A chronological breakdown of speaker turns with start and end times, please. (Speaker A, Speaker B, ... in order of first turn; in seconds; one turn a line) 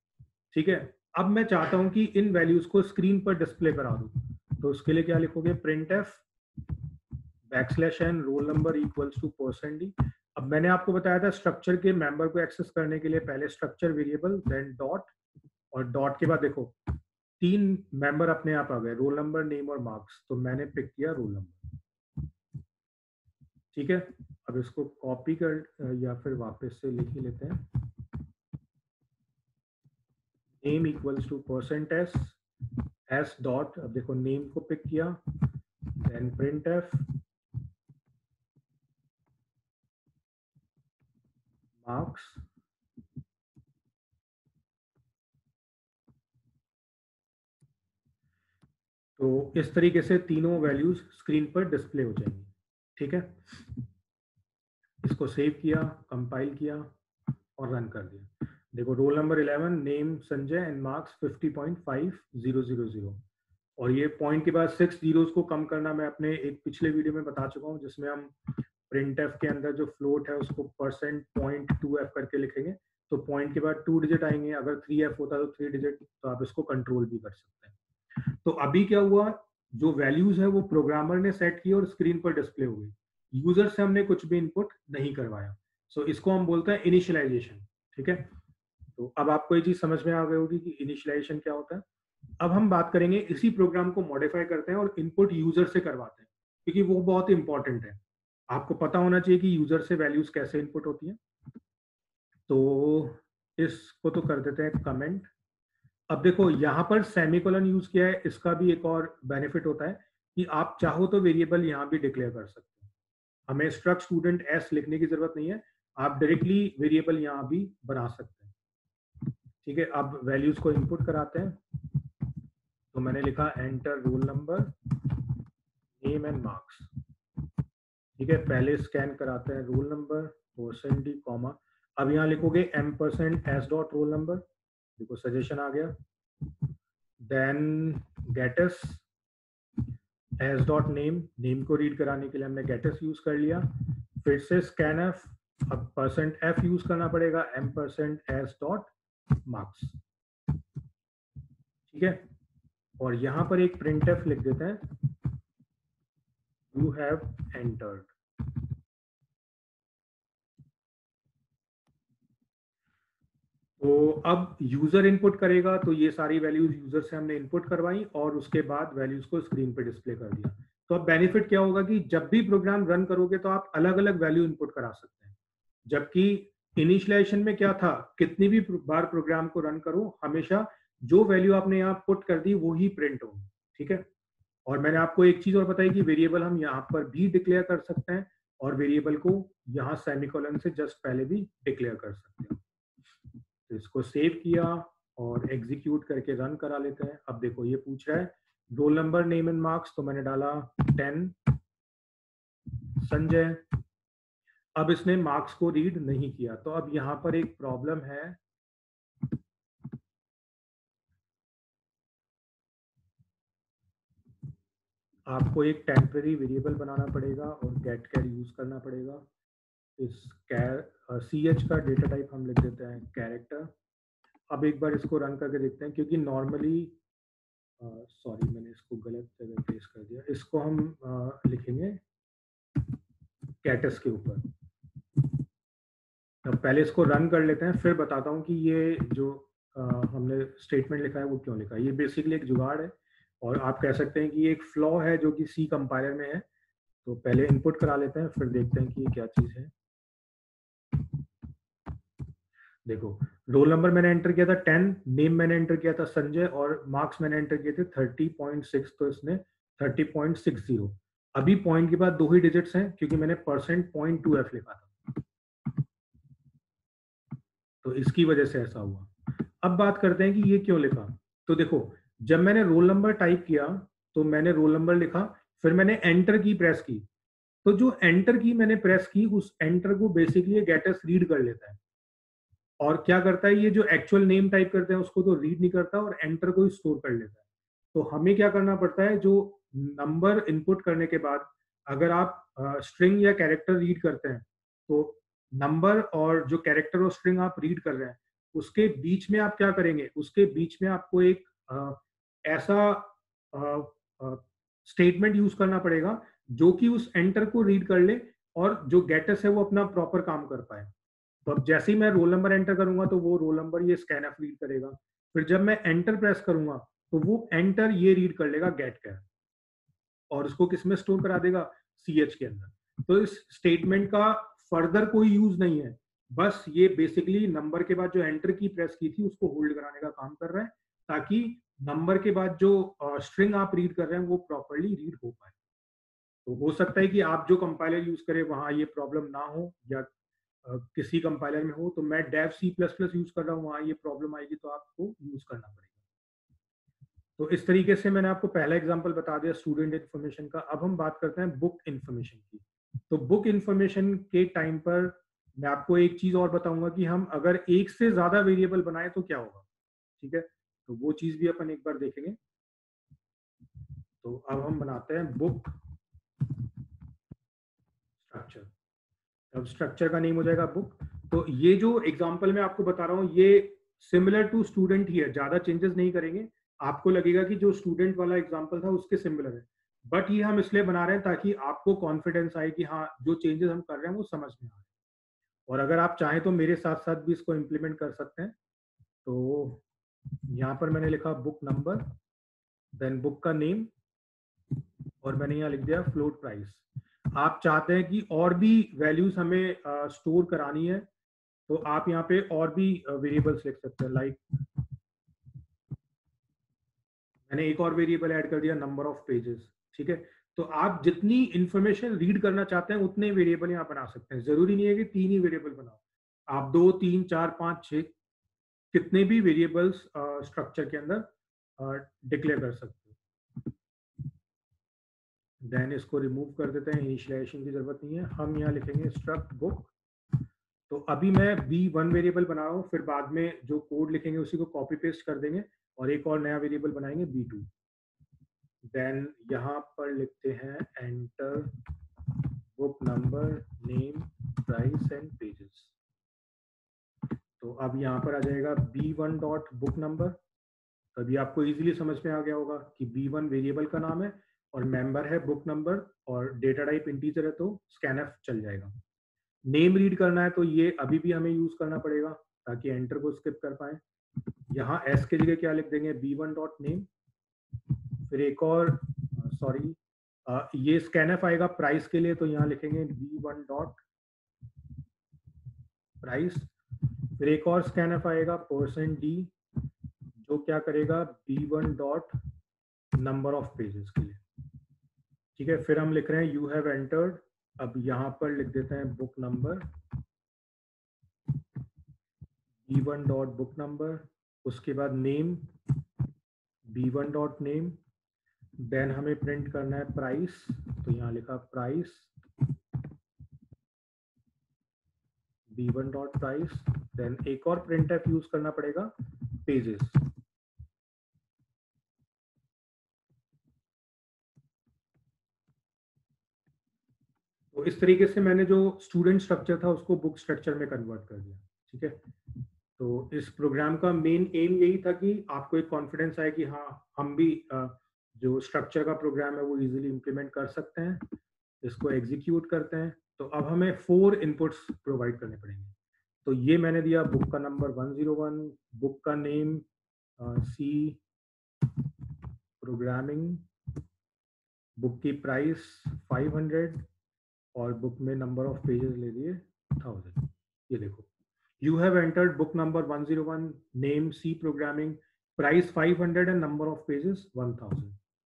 Speaker A: 0.5-6.2
Speaker A: 7.5-15.1
Speaker A: 15.7-16.8
Speaker A: 17.4-21.6
Speaker A: 23.7-27.8
Speaker A: 30.6-32.4
Speaker A: 33.1-35.2
Speaker A: 36.0-37.1
Speaker A: 41.8-42.4
Speaker A: 49.2-53.8
Speaker A: 55.0-56.9
Speaker A: 57.6-63.2
Speaker A: 63.8-77.8
Speaker A: 78.3-88.3
Speaker A: 89.0-91.8
Speaker A: 92.4-98.0
Speaker A: 98.5-101.2
Speaker A: 102.5-105.3
Speaker A: 106.1-112.9
Speaker A: 113.5-118.5
Speaker A: 119.6-121.6
Speaker A: 122.9-125.2
Speaker A: 126.0-126.9
Speaker A: 128.2-134.4
Speaker A: 135.0-135.9
Speaker A: 137.2-139.1
Speaker A: 140.4-148.9
Speaker A: 149.4-150.0
Speaker A: 151.9-152.2
Speaker A: 153.0-155.2
Speaker A: 156.7-158.6
Speaker A: 163.8-175.3
Speaker A: 175.9-184.1
Speaker A: 184.7-192.6
Speaker A: 193.7-201.5
Speaker A: 203.0-203.6
Speaker A: 204.8-208.4
Speaker A: 215.3-219.3
Speaker A: 220.0-223.7
Speaker A: 224.5-227.0
Speaker A: 227.8-232.0
Speaker A: 233.6-234.4
Speaker A: 236.4-246.4
Speaker A: 247.0-249.7
Speaker A: 252.9-265.2
Speaker A: 267.8-277.1
Speaker A: 277.6-281.8
Speaker A: 282.8-287.4
Speaker A: 287.9-310.9
Speaker A: 311.5-319.2
Speaker A: 320.3-335.5
Speaker A: 336.5-340.1
Speaker A: 340.6-345.9
Speaker A: 347.4-359.6
Speaker A: 360.2-362.4
Speaker A: 364.2-365.8
Speaker A: 368.2-368.7
Speaker A: 369.5-384.8
Speaker A: 385.7-388.6
Speaker A: 389.2-389.8
Speaker A: 390.5-392.1
Speaker A: 392.9-393.9
Speaker A: 395.2-396.8
Speaker A: 397.3-401.1
Speaker A: 401.7-404.4
Speaker A: 407.5-418.1
Speaker A: 418.9-423.2
Speaker A: 425.6-429.9
Speaker A: 430.9-437.7
Speaker A: 438.9-441.8
Speaker A: 442.8-445.9
Speaker A: 447.6-450.4
Speaker A: 451.1-458.9
Speaker A: 459.7-464.0
Speaker A: 464.7-467.1
Speaker A: 468.3-474.0
Speaker A: 476.2-476.7
Speaker A: 477.4-479.5
Speaker A: 480.4-482.3
Speaker A: 483.2-484.4
Speaker A: 485.6-489.9
Speaker A: 492.9-495.7
Speaker A: 496.9-498.0
Speaker A: 498.8-502.3
Speaker A: 505.7-510.3
Speaker A: 517.7-522.2
Speaker A: 523.0-535.9
Speaker A: 536.5-539.9
Speaker A: 540.4-541.2
Speaker A: 542.8-543.7
Speaker A: 545.0-547.0
Speaker A: 547.8-551.3
Speaker A: 551.8-558.2